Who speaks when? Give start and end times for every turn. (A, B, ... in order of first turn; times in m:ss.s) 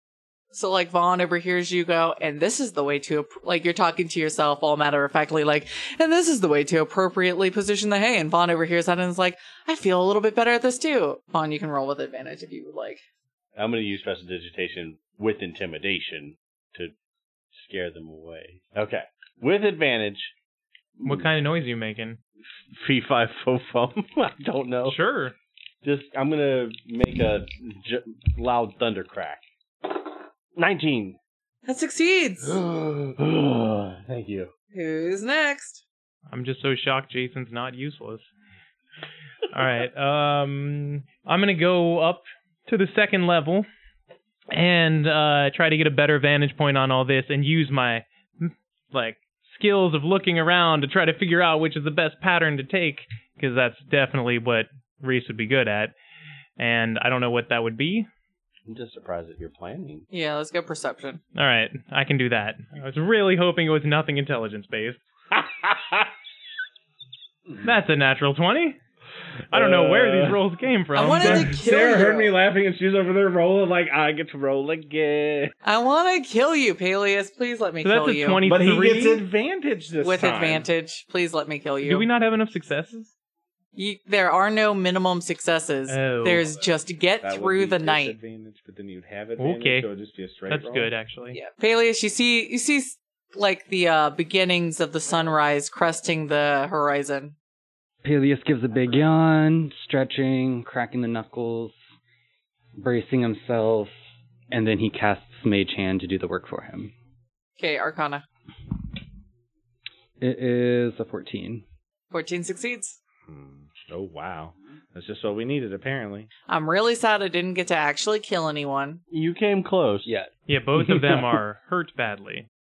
0:00.5-0:13.0 A
0:13.6-0:16.9 B
0:17.5-0:20.3 B
0:21.0-0:21.3 B
0:21.0-0:22.2 C
0:22.7-0:25.0 B
0:24.8-0:25.3 C
0:25.8-0:31.2 B
0:31.6-0:32.6 A
0:32.4-0:34.5 B
0:34.7-0:35.8 A
0:36.3-0:38.3 C
0:39.5-0:43.7 C
0:44.5-0:55.9 C
0:56.6-0:58.1 C
0:58.7-1:00.0 B
1:00.1-1:01.2 A
1:01.3-1:05.0 C
1:05.3-1:06.1 D
1:07.6-1:08.8 C
1:09.5-1:10.4 D
1:09.5-1:11.6 C
1:10.9-1:12.3 A
1:11.1-1:15.5 D
1:15.6-1:18.4 A
1:17.8-1:19.2 C
1:18.4-1:20.7 D
1:20.0-1:22.1 A
1:21.8-1:23.1 C
1:23.8-1:28.2 A
1:25.9-1:26.4 C
1:27.2-1:30.9 D
1:29.4-1:29.9 C
1:30.5-1:31.4 C
1:31.3-1:37.3 A
1:38.0-1:41.8 E
1:42.8-1:43.9 E
1:44.5-1:46.9 E
1:47.6-1:48.2 A
1:50.2-1:51.6 E
1:52.1-1:53.0 A
1:53.3-1:56.3 D
1:56.5-1:59.0 A
1:59.1-2:00.1 B
2:00.0-2:01.3 E
2:00.5-2:02.5 C